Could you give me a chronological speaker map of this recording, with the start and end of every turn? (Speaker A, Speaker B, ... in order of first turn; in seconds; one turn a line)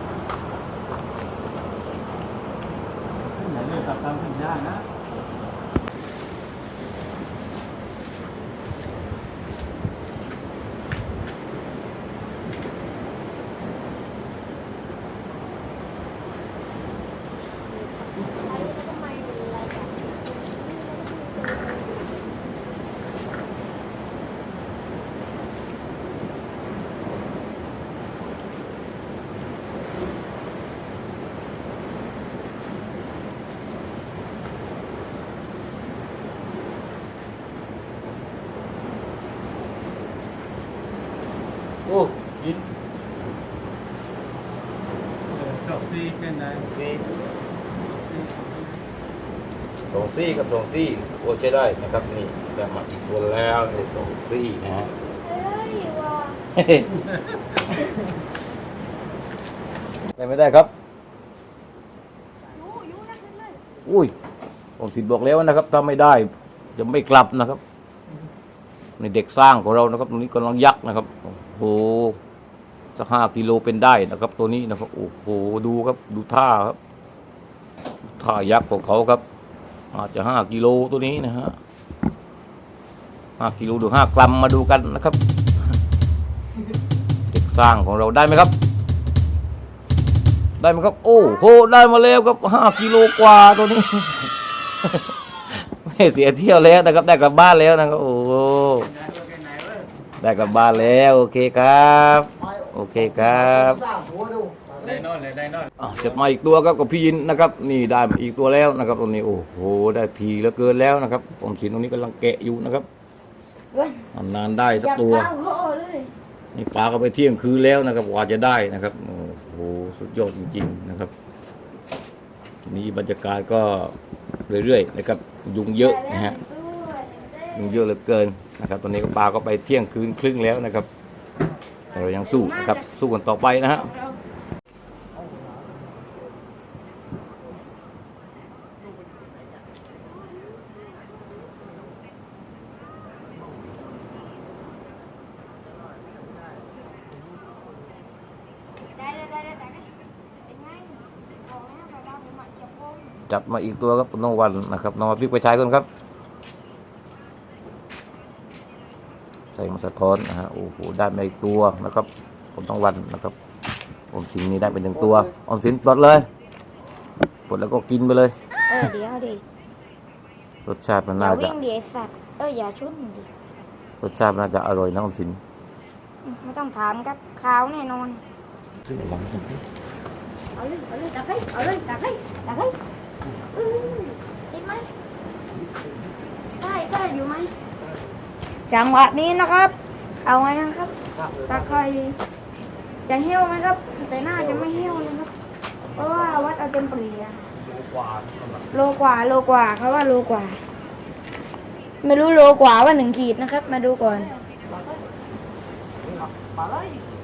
Speaker A: 3.2-4.8
Speaker B: 18.4-22.2
Speaker C: 41.9-42.6
Speaker A: 45.3-46.7
Speaker C: 46.7-47.0
Speaker A: 47.9-48.7
Speaker C: 49.9-54.9
Speaker B: 55.2-56.4
Speaker C: 56.5-57.0
Speaker C: 60.2-60.7
Speaker B: 62.5-63.6
Speaker C: 63.8-64.1
Speaker C: 64.8-67.6
Speaker C: 69.0-72.2
Speaker C: 73.0-76.8
Speaker C: 78.0-79.2
Speaker C: 79.9-81.6
Speaker C: 83.4-85.2
Speaker C: 87.3-88.5
Speaker C: 90.6-94.3
Speaker C: 94.8-98.9
Speaker A: 98.8-99.9
Speaker C: 100.2-103.8
Speaker D: 102.4-105.0
Speaker A: 104.8-105.8
Speaker C: 105.8-112.8
Speaker B: 113.7-114.0
Speaker C: 114.1-115.3
Speaker B: 114.7-116.1
Speaker C: 116.5-121.1
Speaker C: 122.7-124.0
Speaker C: 124.5-126.4
Speaker B: 125.8-127.8
Speaker C: 127.5-130.9
Speaker C: 131.9-133.9
Speaker B: 132.2-132.9
Speaker B: 133.8-134.2
Speaker B: 148.9-149.9
Speaker B: 150.4-153.2
Speaker C: 153.3-155.9
Speaker C: 159.5-163.3
Speaker C: 164.1-166.3
Speaker D: 164.9-165.3
Speaker C: 167.5-168.3
Speaker B: 168.7-169.4
Speaker C: 170.7-171.5
Speaker B: 171.2-173.3
Speaker C: 174.0-175.4
Speaker B: 176.2-178.2
Speaker C: 178.8-179.6
Speaker B: 180.6-182.7
Speaker B: 183.5-184.9
Speaker B: 186.6-187.5
Speaker B: 188.7-189.7
Speaker B: 190.2-190.9
Speaker C: 191.1-191.8
Speaker B: 191.5-192.2
Speaker B: 193.1-195.3
Speaker C: 194.2-195.1
Speaker A: 195.8-196.5
Speaker B: 195.9-197.4
Speaker A: 197.5-198.6
Speaker B: 198.7-200.6
Speaker B: 202.0-204.3
Speaker D: 204.0-205.1
Speaker D: 206.1-207.1